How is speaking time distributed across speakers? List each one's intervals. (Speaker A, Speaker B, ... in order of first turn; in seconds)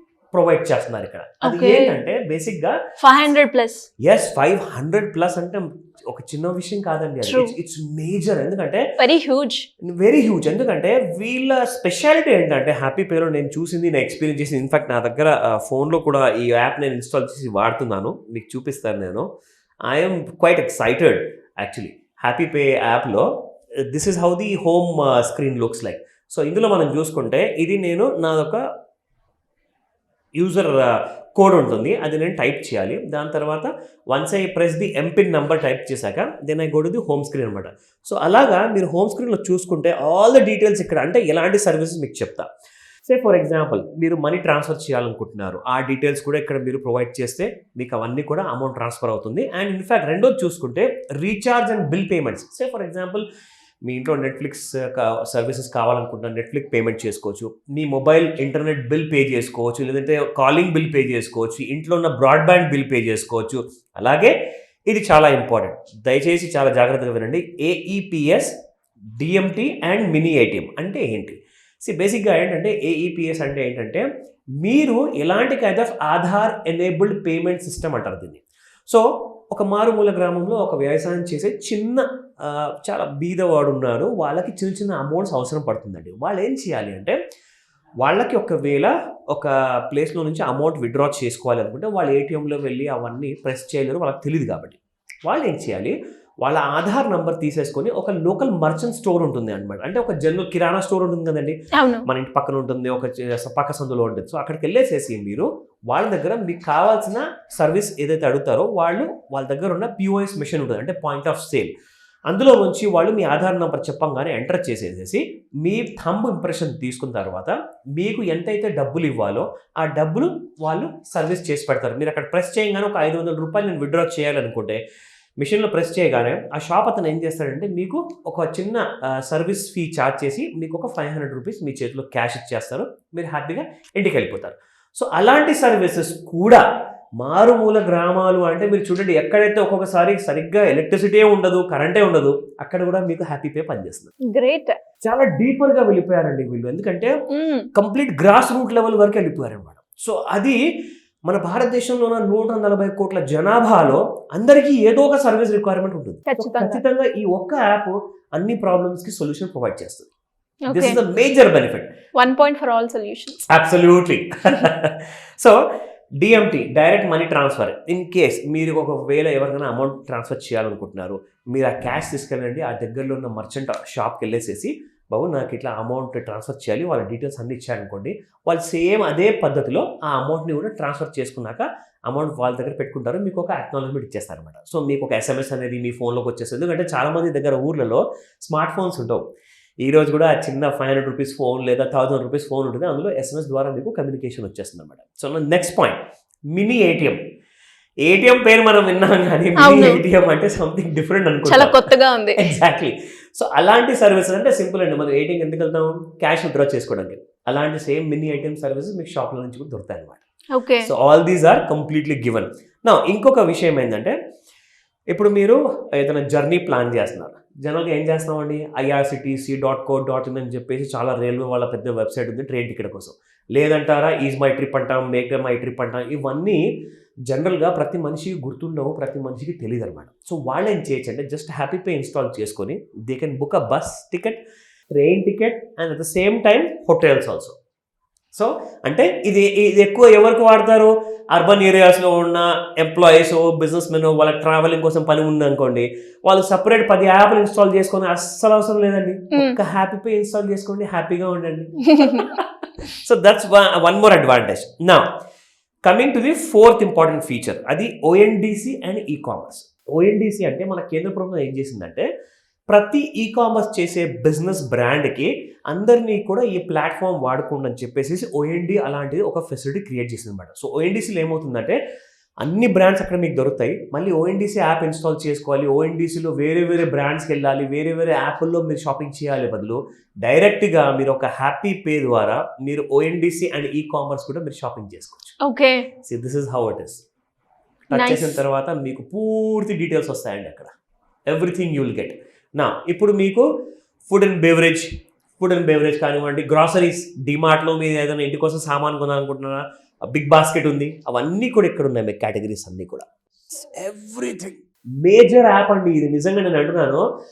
Speaker A: 0.3-2.8, 4.0-8.8, 9.9-19.2, 19.9-23.3, 23.9-28.6, 30.4-42.5, 43.1-53.2, 53.9-64.3, 64.9-68.5, 69.2-74.0, 74.6-87.2, 88.0-111.7, 112.3-124.8, 125.4-136.6, 137.2-144.1, 145.0-147.1, 147.8-150.6, 151.3-160.1, 160.7-161.9, 163.4-165.6, 166.2-189.2, 189.8-196.0, 196.5-197.2, 198.1-210.2, 210.8-214.2, 215.1-226.6, 227.3-234.4, 235.0-237.6, 238.3-255.1, 255.9-262.1, 262.7-271.8, 272.4-285.4, 286.1-287.0, 287.9-290.7, 291.3-293.4, 294.1-294.9, 295.4-307.0
Speaker B: 1.4-1.9, 3.0-3.9, 7.2-7.5, 9.0-9.6, 101.7-102.1, 144.3-144.8, 147.3-147.7, 156.3-156.8, 160.7-161.0, 162.2-163.4, 199.6-200.0, 201.5-202.4, 210.5-210.9, 252.0-252.2, 285.4-285.9, 287.9-288.4